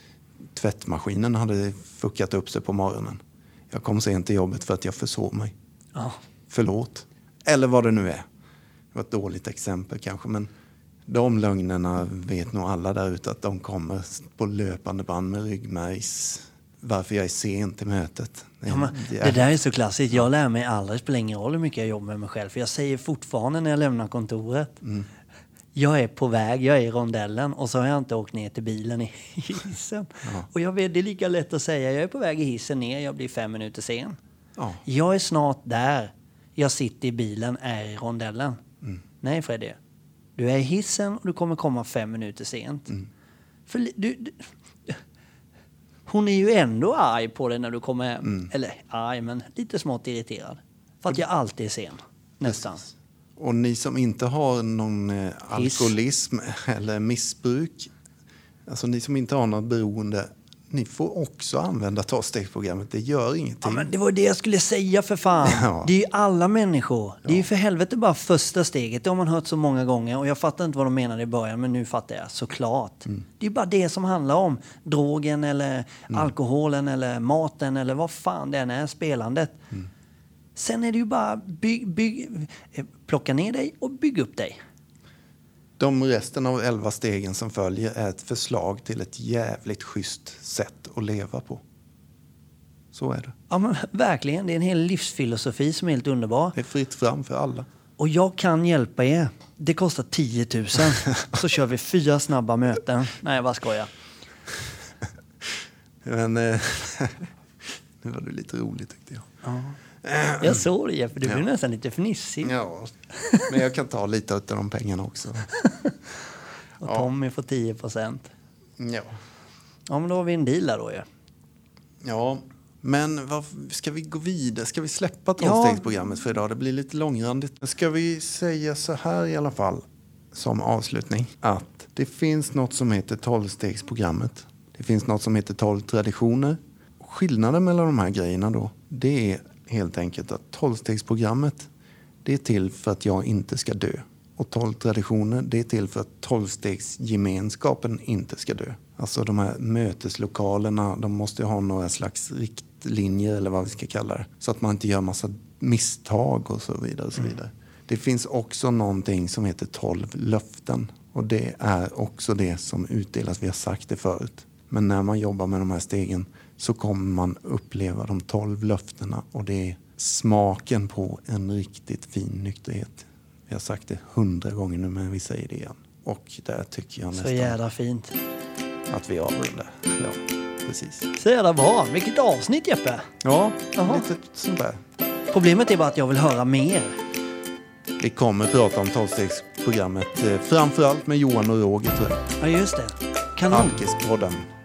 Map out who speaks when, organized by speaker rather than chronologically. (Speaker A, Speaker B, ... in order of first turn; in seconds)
Speaker A: 0.5-3.2, 3.7-5.5, 6.5-8.2, 8.9-10.5, 11.1-19.4, 24.8-25.1, 34.6-34.8, 52.4-57.9, 58.6-63.9, 65.4-65.9, 85.8-91.6, 92.9-93.3, 96.5-97.7, 106.0-109.3, 110.0-110.7, 112.4-115.5, 116.8-117.1, 118.8-119.1, 122.0-141.7, 142.2-177.6, 178.9-181.1, 183.2-184.8, 188.0-192.2, 193.5-194.5
Speaker B: 18.7-24.8, 25.7-34.2, 34.8-38.6, 39.2-39.8, 40.4-43.0, 43.7-45.0, 46.1-52.8, 55.5-55.9, 63.6-79.6, 80.5-84.6, 93.5-96.5, 98.0-103.9, 109.4-109.8, 110.4-112.5, 113.1-113.5, 115.6-116.0, 116.8-118.3, 119.9-121.0, 125.4-125.8, 177.1-178.2, 181.2-183.1, 183.8-184.0, 185.3-187.0, 192.4-193.8